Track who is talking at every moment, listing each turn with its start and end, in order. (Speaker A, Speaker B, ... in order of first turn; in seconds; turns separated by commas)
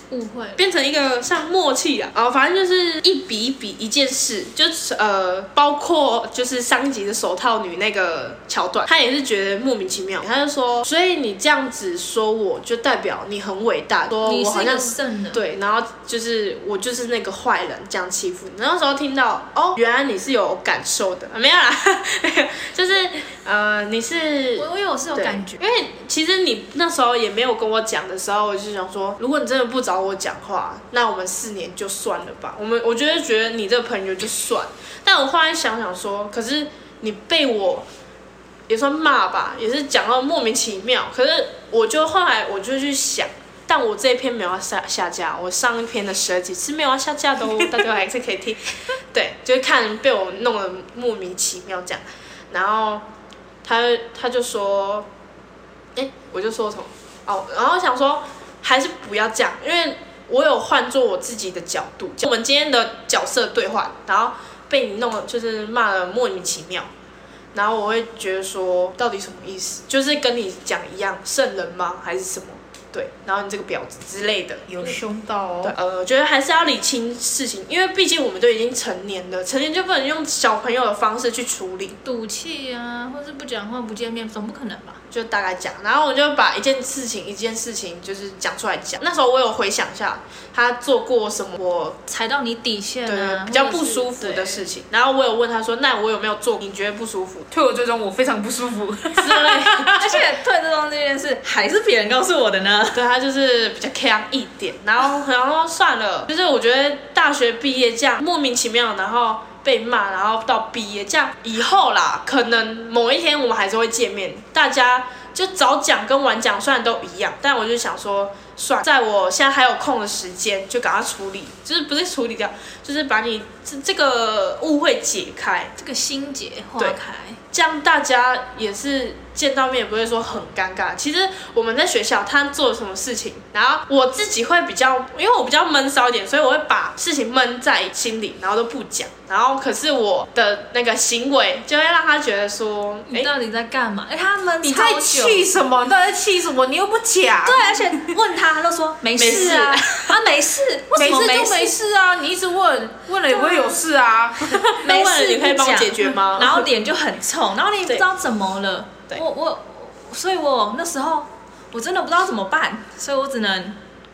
Speaker A: 0.1-0.6, Speaker B: 0.6-37.9, Speaker A: 14.2-15.4, Speaker A: 24.6-25.6, Speaker B: 38.7-48.6, Speaker B: 49.1-53.0, Speaker B: 53.6-55.1, Speaker B: 56.0-66.9, Speaker B: 67.5-74.7, Speaker C: 74.7-75.8, Speaker B: 75.6-82.0, Speaker A: 82.0-85.0, Speaker B: 85.1-92.0, Speaker A: 92.1-94.6, Speaker B: 93.1-97.5, Speaker C: 97.5-100.2, Speaker B: 99.2-99.9, Speaker A: 99.9-103.0, Speaker B: 102.9-125.7, Speaker A: 125.8-127.4, Speaker B: 127.5-143.3, Speaker A: 143.1-145.6, Speaker C: 144.6-148.2, Speaker A: 147.4-151.8, Speaker B: 149.2-150.2, Speaker C: 150.9-154.6, Speaker A: 153.3-153.8, Speaker B: 154.8-156.7, Speaker A: 154.8-163.8